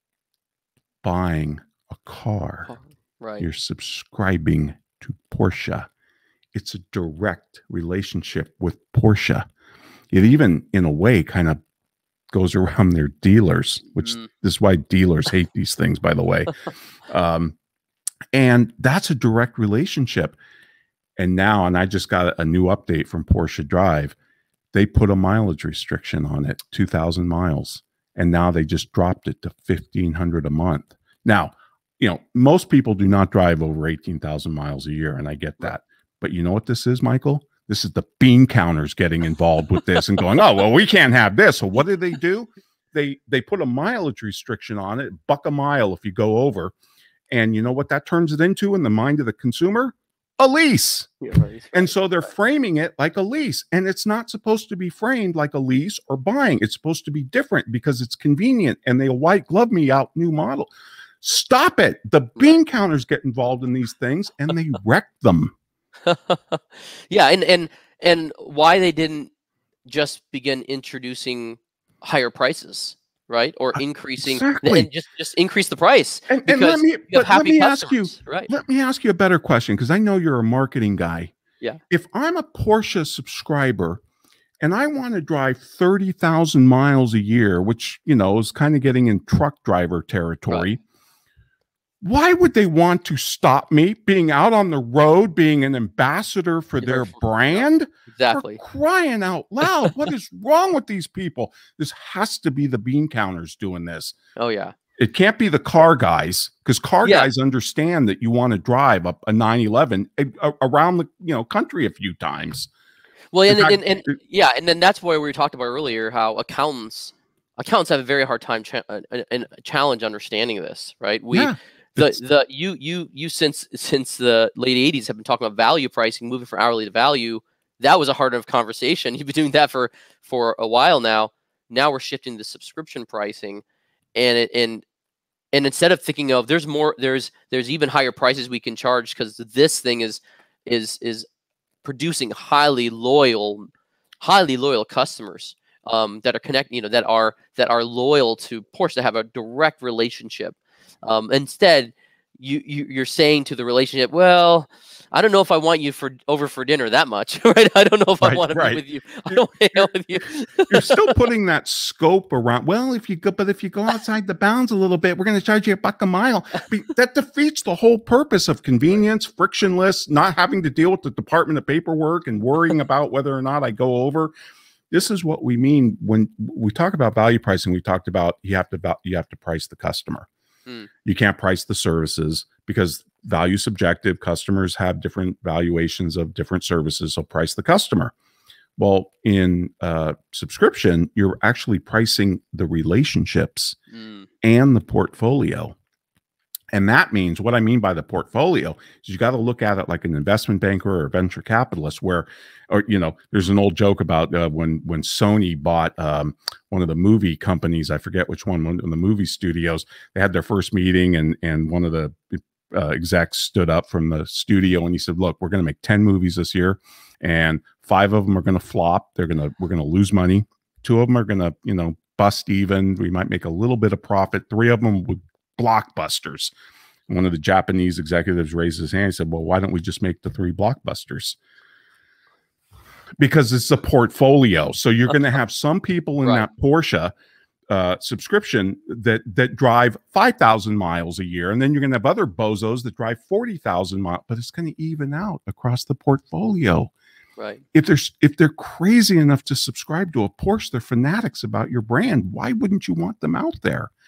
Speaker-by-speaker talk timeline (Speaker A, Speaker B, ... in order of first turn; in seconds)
Speaker A: 1.0-2.7, 3.4-5.9, 6.5-9.5, 10.1-11.6, 12.3-16.6, 17.1-17.6, 18.3-20.4, 21.2-24.2, 24.7-46.7, 47.3-51.1, 51.7-65.5, 74.2-74.9, 76.3-81.3, 81.9-84.0, 84.6-90.8, 92.0-104.2, 105.0-112.7, 113.5-114.2, 121.3-122.2, 158.2-159.9, 160.7-174.3, 174.9-180.3, 181.1-188.1, 188.8-193.8, 194.4-195.8, 196.7-226.5, 227.1-231.4, 233.2-237.1, 237.7-246.9, 247.7-253.9
Speaker B: 2.7-3.5, 14.0-14.3, 51.2-51.9, 66.1-69.3, 69.9-78.5, 96.8-98.6, 104.4-104.7, 107.0-107.3, 113.3-133.6, 134.2-134.8, 135.5-141.3, 141.8-143.7, 144.2-161.1, 193.9-194.3, 247.4-247.6